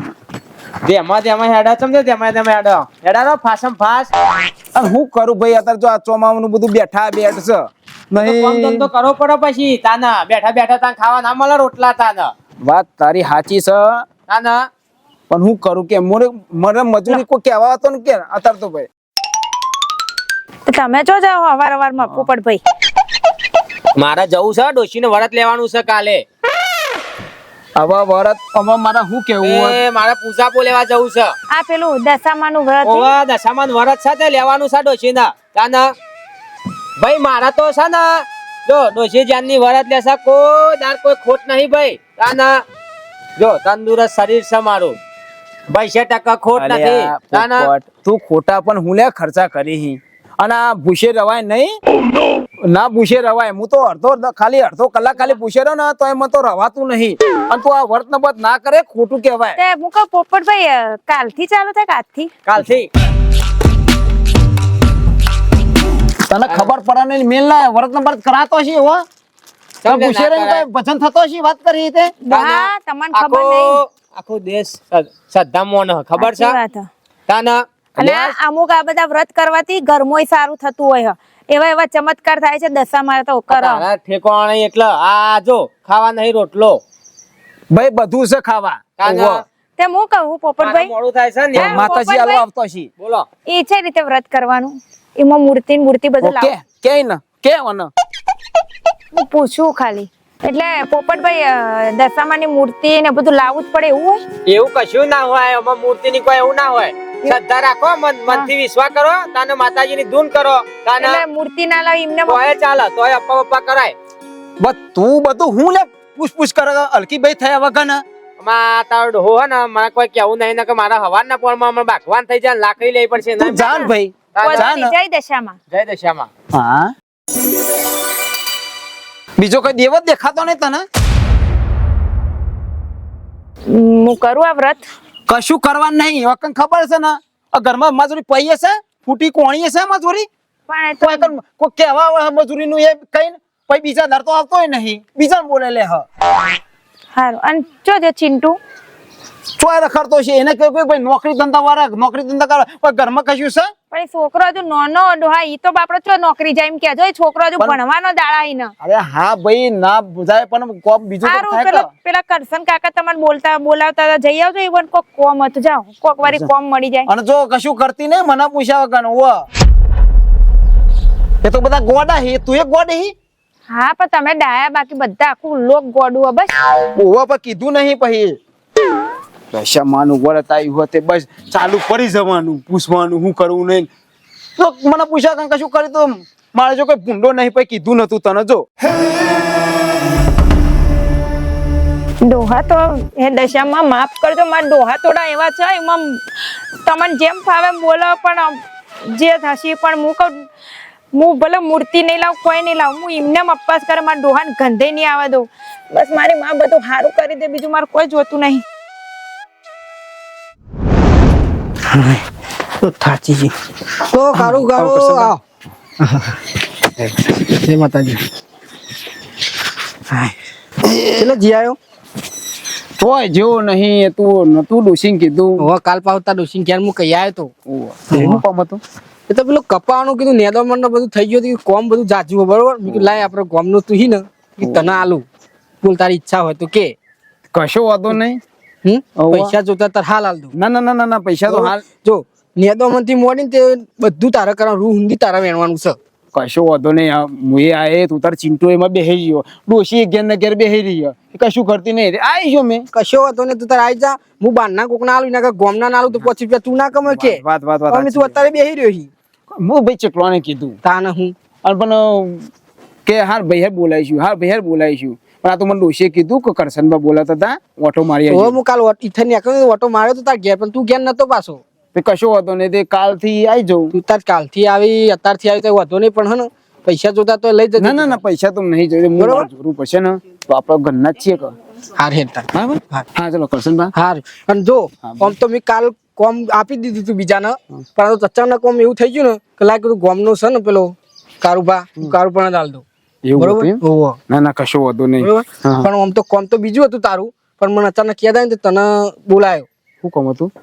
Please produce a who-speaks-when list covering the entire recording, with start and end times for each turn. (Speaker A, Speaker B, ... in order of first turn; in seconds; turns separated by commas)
Speaker A: 0.8-4.1, Speaker B: 4.7-8.9, Speaker A: 8.2-12.3, Speaker B: 12.6-14.0, Speaker A: 14.3-14.7, Speaker B: 15.3-18.9, Speaker C: 20.6-22.6, Speaker A: 23.9-26.2, Speaker B: 27.8-29.8, Speaker A: 29.4-31.3, Speaker C: 31.5-33.1, Speaker A: 32.8-35.9, Speaker A: 37.0-42.6, Speaker A: 43.4-45.0, Speaker A: 45.7-47.7, Speaker B: 46.5-51.8, Speaker B: 52.6-59.6, Speaker C: 59.6-62.3, Speaker A: 62.4-62.9, Speaker B: 66.3-69.0, Speaker A: 69.8-70.6, Speaker B: 69.8-72.1, Speaker C: 72.2-73.8, Speaker A: 72.3-76.5, Speaker C: 76.2-76.9, Speaker A: 77.3-78.3, Speaker C: 78.0-83.8, Speaker A: 83.5-86.8, Speaker B: 87.7-89.4, Speaker A: 89.0-89.4, Speaker C: 89.8-90.9, Speaker A: 90.6-91.9, Speaker B: 91.5-92.9, Speaker C: 91.5-92.4, Speaker A: 93.0-93.2, Speaker C: 93.5-96.5, Speaker B: 96.2-97.9, Speaker C: 99.1-104.2, Speaker A: 104.5-111.2, Speaker C: 111.0-112.4, Speaker A: 112.3-113.9, Speaker B: 114.6-118.0, Speaker A: 118.4-123.8, Speaker B: 123.4-124.9, Speaker C: 123.6-123.8, Speaker A: 124.3-124.7, Speaker C: 124.4-125.6, Speaker A: 125.7-126.3, Speaker B: 126.5-126.9, Speaker B: 129.4-130.8, Speaker C: 133.7-134.8, Speaker B: 135.3-140.3, Speaker C: 140.7-141.3, Speaker B: 141.0-146.0, Speaker C: 147.1-148.6, Speaker B: 149.6-153.7, Speaker C: 153.9-158.7, Speaker B: 158.8-161.9, Speaker C: 161.2-167.1, Speaker B: 167.1-169.4, Speaker B: 171.4-173.1, Speaker C: 173.7-176.5, Speaker B: 176.9-178.4, Speaker B: 179.5-183.9, Speaker B: 184.6-188.6, Speaker C: 192.2-196.2, Speaker C: 196.8-200.5, Speaker C: 201.1-208.6, Speaker D: 211.9-212.2, Speaker D: 212.8-213.5, Speaker D: 214.1-215.4, Speaker B: 214.3-215.3, Speaker D: 216.0-216.4, Speaker D: 217.2-218.2, Speaker D: 220.1-220.3, Speaker B: 220.8-221.3, Speaker D: 221.1-221.8, Speaker B: 223.0-225.7, Speaker D: 225.6-227.5, Speaker B: 227.7-228.8, Speaker D: 228.1-228.4, Speaker D: 229.3-235.2, Speaker B: 232.9-233.2, Speaker B: 234.6-235.0, Speaker D: 235.8-236.9, Speaker B: 237.5-238.4, Speaker D: 238.8-240.5, Speaker B: 239.2-239.6, Speaker B: 240.5-241.8, Speaker D: 241.5-246.0, Speaker B: 246.3-252.8, Speaker D: 252.9-259.1, Speaker B: 257.0-258.4, Speaker B: 259.5-260.8, Speaker D: 260.8-261.3, Speaker B: 261.6-262.5, Speaker B: 263.0-268.6, Speaker D: 268.3-271.6, Speaker B: 271.9-273.9, Speaker D: 273.9-278.2, Speaker B: 277.8-281.5, Speaker D: 279.2-279.5, Speaker D: 282.0-283.0, Speaker B: 282.5-283.9, Speaker D: 283.9-292.8, Speaker B: 285.0-285.3, Speaker B: 293.2-295.9, Speaker D: 293.4-294.2, Speaker D: 295.2-299.7, Speaker B: 300.0-300.5